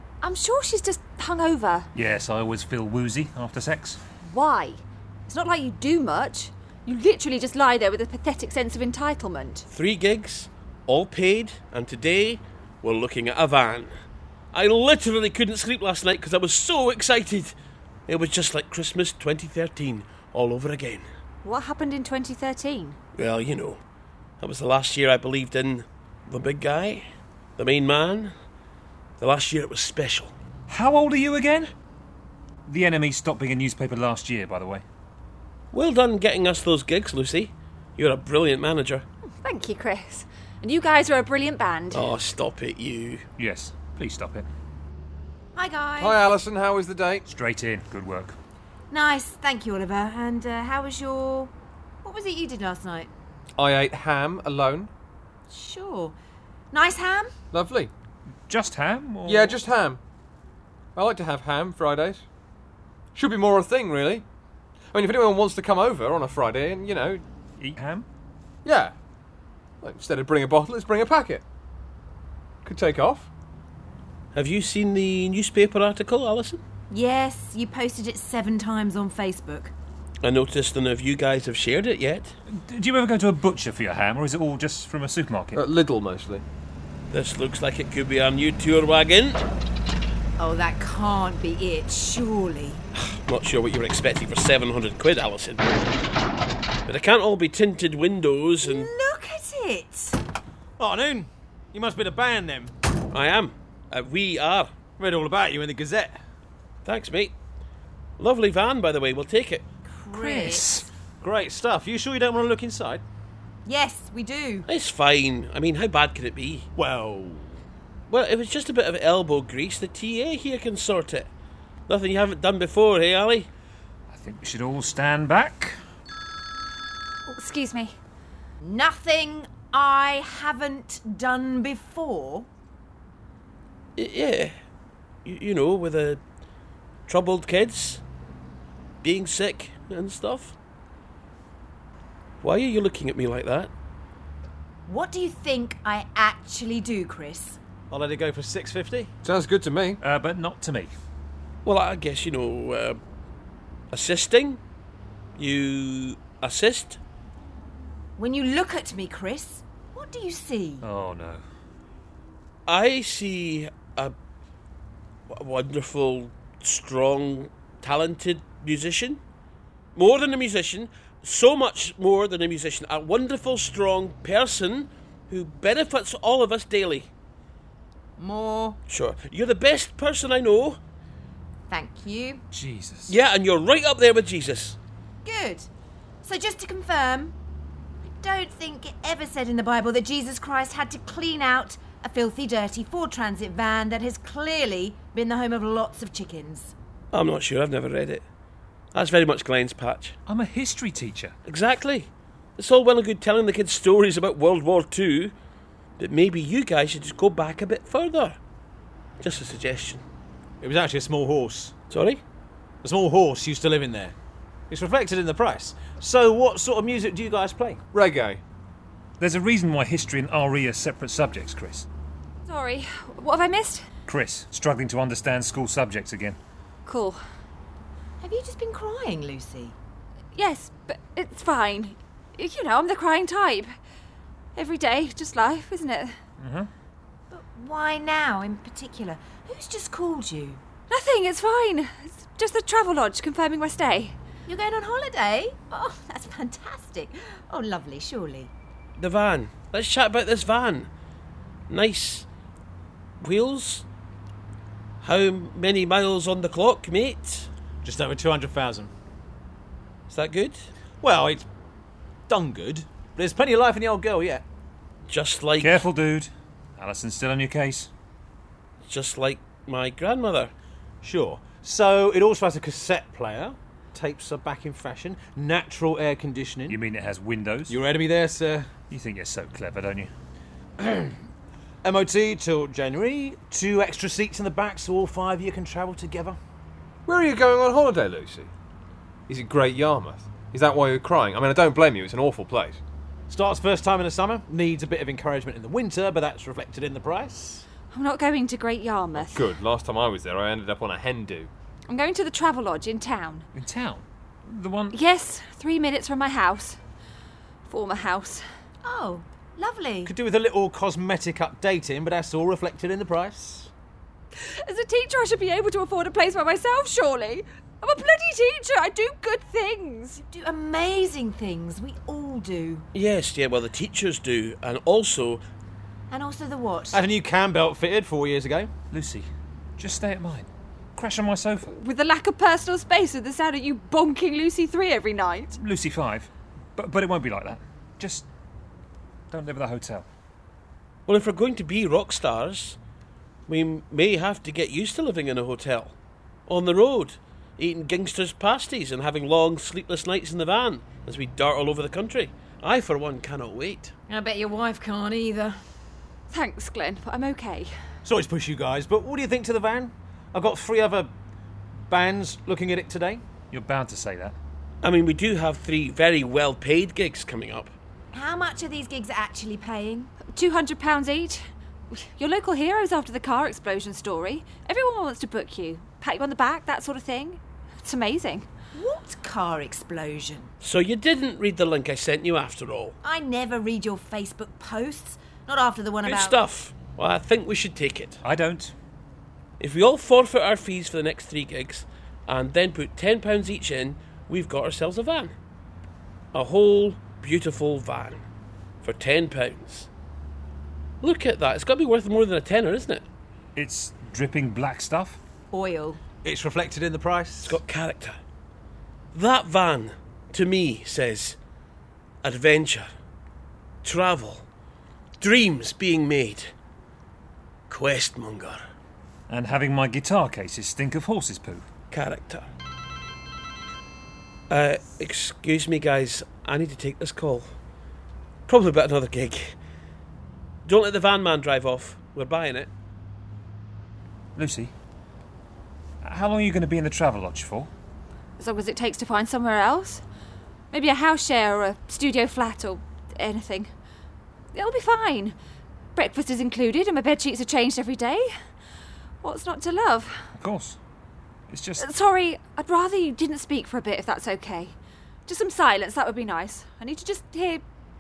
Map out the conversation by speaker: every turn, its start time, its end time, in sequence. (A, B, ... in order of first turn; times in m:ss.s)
0:00.2-0:01.9 A
0:01.9-0:04.0 B
0:04.3-0:09.7 A
0:09.7-0:13.9 C
0:14.5-0:17.6 C
0:18.1-0:21.1 C
0:21.4-0:23.0 A
0:23.2-0:23.8 C
0:24.4-0:27.1 C
0:27.6-0:28.3 C
0:29.2-0:30.3 C
0:30.7-0:31.7 B
0:32.7-0:34.8 B
0:35.7-0:39.0 C
0:39.4-0:42.1 A
0:41.9-0:43.2 C
0:43.4-0:44.5 B
0:45.6-0:46.2 D
0:46.0-0:47.2 E
0:47.3-0:48.4 B
0:48.9-0:51.5 D
0:52.0-0:53.1 D
0:53.6-0:54.9 E
0:55.5-0:56.2 D
0:56.7-0:57.3 D
0:57.5-0:57.9 E
0:58.5-0:59.6 B
0:59.3-1:00.0 E
1:01.0-1:02.2 E
1:03.2-1:04.2 E
1:04.9-1:07.2 E
1:07.6-1:08.1 B
1:08.6-1:08.9 E
1:09.8-1:11.4 E
1:12.6-1:13.3 E
1:14.4-1:16.6 C
1:16.9-1:19.7 D
1:20.2-1:22.3 C
1:22.5-1:25.6 B
1:25.6-1:26.4 E
1:27.1-1:29.4 C
1:30.4-1:32.8 D
1:33.0-1:35.7 C
1:36.9-1:38.9 C
1:38.6-1:40.2 D
1:40.8-1:42.7 F
1:43.1-1:44.7 C
1:45.0-1:46.2 F
1:46.8-1:47.3 C
1:48.2-1:49.6 C
1:49.9-1:50.9 D
1:50.1-1:50.9 B
1:51.2-1:53.0 F
1:53.7-1:54.7 D
1:54.7-1:56.7 C
1:56.8-1:57.5 F
1:58.1-2:01.3 C
2:01.9-2:03.5 C
2:04.1-2:05.8 B
2:07.3-2:08.0 A
2:08.6-2:12.5 D
2:14.0-2:14.5 C
2:15.2-2:16.2 C
2:17.1-2:18.0 C
2:19.0-2:20.6 C
2:22.4-2:23.7 C
2:24.9-2:27.6 D
2:27.9-2:29.1 F
2:29.2-2:30.0 E
2:30.0-2:30.9 B
2:31.6-2:33.0 C
2:33.9-2:34.6 C
2:35.4-2:37.0 C
2:38.2-2:40.8 D
2:40.8-2:41.4 B
2:42.7-2:44.1 C
2:45.3-2:49.2 C
2:50.0-2:57.1 C
2:58.2-2:58.6 D
2:58.2-2:58.7 F
2:58.9-3:00.8 C
3:01.7-3:02.4 D
3:02.5-3:03.1 B
3:03.1-3:04.8 C
3:05.2-3:05.7 D
3:06.2-3:07.3 D
3:08.2-3:16.7 D
3:17.1-3:18.2 C
3:18.9-3:20.2 C
3:20.3-3:21.4 B
3:21.5-3:25.3 C
3:26.0-3:28.4 C
3:29.2-3:30.0 C
3:30.6-3:31.8 F
3:31.9-3:32.2 C
3:32.8-3:34.2 F
3:34.7-3:37.8 F
3:37.9-3:38.4 E
3:39.2-3:41.9 B
3:42.5-3:43.8 A
3:44.1-3:46.4 B
3:46.9-3:47.2 A
3:48.2-3:49.8 D
3:50.3-3:53.7 A
3:54.6-3:56.1 A
3:56.4-3:56.7 B
3:57.3-4:00.6 D
4:00.9-4:04.1 A
4:04.5-4:08.5 D
4:09.0-4:10.9 C
4:11.7-4:12.3 C
4:13.2-4:13.8 C
4:15.0-4:17.5 C
4:17.8-4:18.9 F
4:20.1-4:20.6 C
4:21.0-4:21.5 F
4:22.3-4:24.4 F
4:25.1-4:25.8 C
4:25.6-4:27.9 B
4:28.9-4:30.5 C
4:31.0-4:36.8 F
4:36.7-4:37.8 B
4:37.7-4:38.7 F
4:38.9-4:40.1 B
4:40.8-4:41.1 F
4:41.8-4:46.4 F
4:47.1-4:48.5 E
4:49.3-4:52.8 E
4:53.3-4:57.7 F
4:57.9-4:59.5 A
4:59.2-5:01.5 E
5:01.9-5:03.5 A
5:03.5-5:05.0 B
5:04.9-5:06.8 A
5:07.7-5:08.4 A
5:08.8-5:10.1 D
5:10.0-5:13.7 F
5:14.4-5:20.2 A
5:20.3-5:22.9 D
5:22.9-5:25.4 C
5:26.1-5:27.0 D
5:26.9-5:28.7 F
5:28.9-5:31.7 B
5:31.7-5:35.6 A
5:35.6-5:38.3 B
5:39.3-5:40.1 B
5:41.1-5:42.8 C
5:43.5-5:45.9 C
5:46.5-5:53.9 C
5:54.1-5:55.6 D
5:56.3-5:57.7 A
5:58.0-6:01.1 F
6:01.9-6:03.2 F
6:03.5-6:04.4 B
6:04.8-6:07.7 C
6:08.1-6:10.1 D
6:10.3-6:11.4 A
6:11.9-6:18.5 A
6:18.8-6:20.5 D
6:20.6-6:23.0 C
6:23.0-6:26.4 D
6:26.0-6:28.2 C
6:28.2-6:28.7 B
6:29.6-6:35.3 C
6:36.3-6:38.2 C
6:38.8-6:39.9 C
6:41.0-6:43.0 C
6:43.6-6:45.2 B
6:45.5-6:46.0 D
6:46.2-6:47.6 F
6:47.4-6:48.2 C
6:49.1-6:51.4 C
6:52.2-6:52.9 C
6:53.8-6:54.4 C
6:55.2-6:56.5 C
6:57.7-6:58.6 C
6:59.3-7:01.6 B
7:01.9-7:02.5 C
7:04.5-7:07.5 C
7:08.5-7:09.6 C
7:10.7-7:12.7 C
7:14.4-7:14.7 B
7:16.0-7:17.7 B
7:18.4-7:20.0 A
7:20.7-7:23.7 A
7:24.5-7:25.4 A
7:26.0-7:28.3 A
7:29.2-7:30.1 A
7:30.4-7:30.8 B
7:31.5-7:31.8 B
7:31.8-7:34.7 A
7:35.3-7:37.6 A